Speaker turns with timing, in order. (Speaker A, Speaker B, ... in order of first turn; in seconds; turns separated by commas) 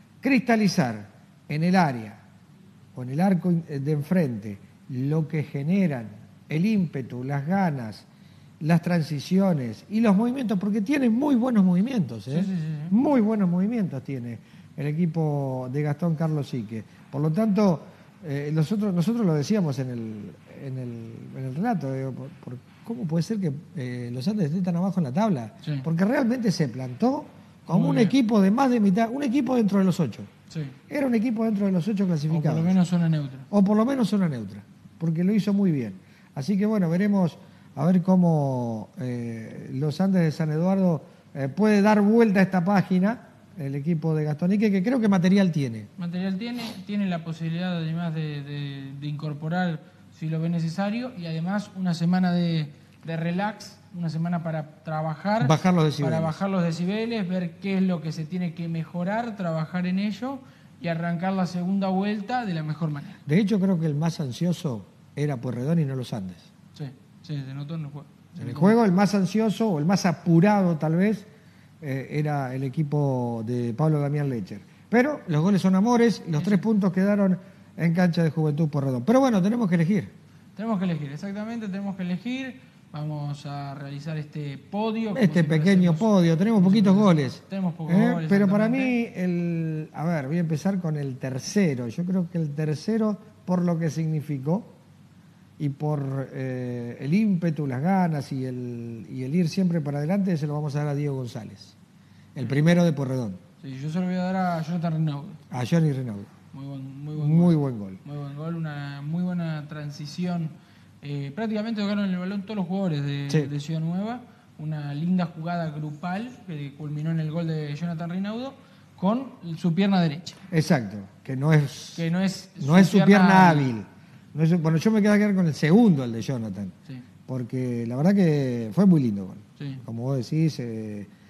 Speaker A: 0.2-2.2, Speaker A: 2.9-8.1, Speaker A: 8.6-30.3, Speaker B: 12.3-12.9, Speaker B: 27.7-28.1, Speaker B: 30.5-30.8, Speaker A: 30.9-32.8, Speaker B: 32.3-33.5, Speaker A: 33.5-45.9, Speaker B: 46.0-63.2, Speaker A: 55.4-56.4, Speaker A: 63.2-66.5, Speaker B: 66.8-68.8, Speaker A: 68.4-71.3, Speaker A: 71.8-80.1, Speaker B: 76.4-76.6, Speaker B: 80.5-88.9, Speaker A: 85.1-94.7, Speaker A: 95.6-101.8, Speaker A: 102.3-103.4, Speaker B: 103.6-105.4, Speaker A: 105.5-106.3, Speaker B: 106.5-120.4, Speaker A: 107.2-108.0, Speaker A: 120.5-122.0, Speaker B: 121.9-123.7, Speaker A: 122.6-126.7, Speaker A: 127.3-131.1